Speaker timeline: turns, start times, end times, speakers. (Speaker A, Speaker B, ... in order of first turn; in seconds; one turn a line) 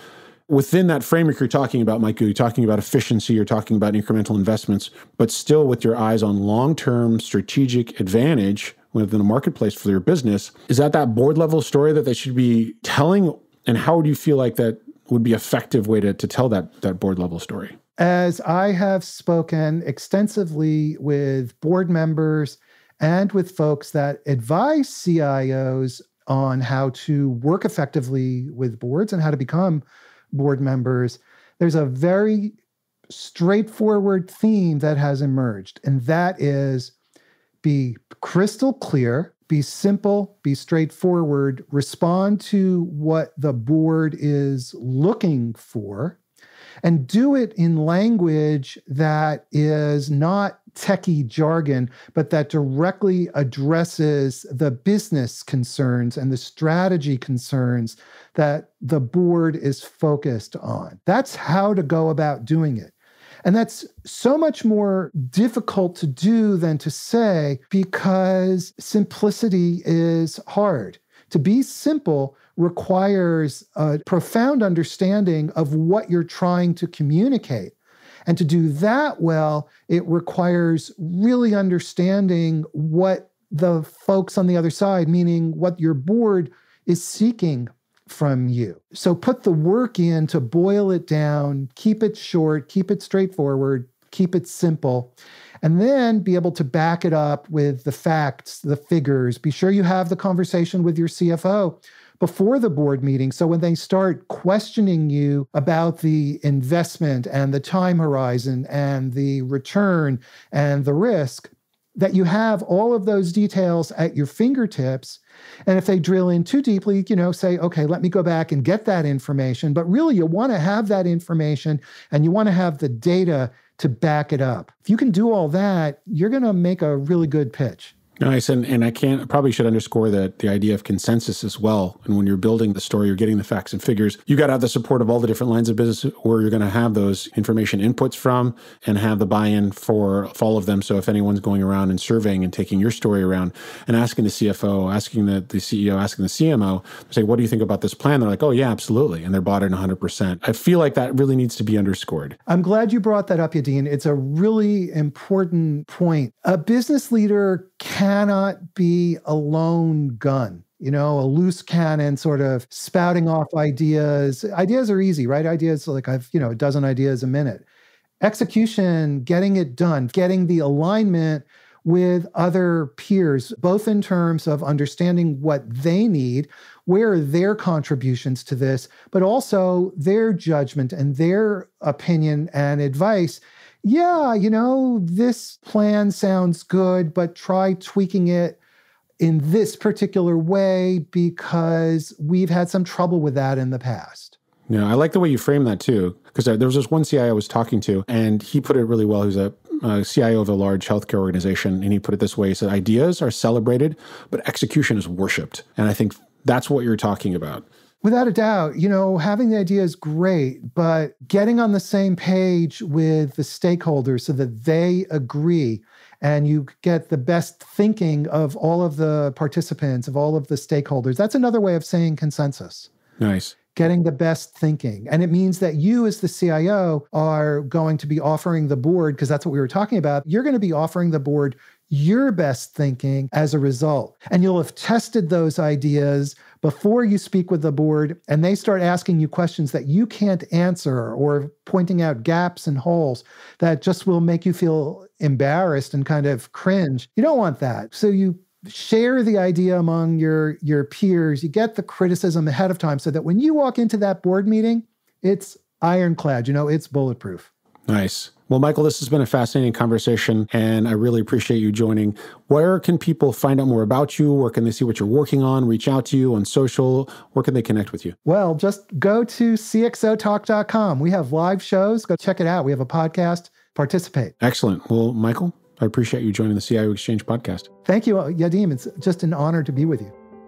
Speaker A: 0.5-17.8
Speaker B: 18.0-32.5
Speaker B: 33.1-36.9
Speaker B: 37.6-46.2
Speaker B: 46.8-62.9
Speaker B: 63.4-77.7
Speaker B: 78.3-127.9
Speaker A: 128.2-152.4
Speaker B: 152.5-167.6
Speaker B: 168.2-188.6
Speaker B: 189.2-194.3
Speaker A: 194.7-207.6
Speaker B: 208.0-222.9
Speaker A: 223.2-223.6
Speaker B: 223.7-257.5
Speaker A: 257.9-268.1
Speaker B: 268.2-274.3
Speaker A: 274.4-277.7
Speaker B: 277.9-280.1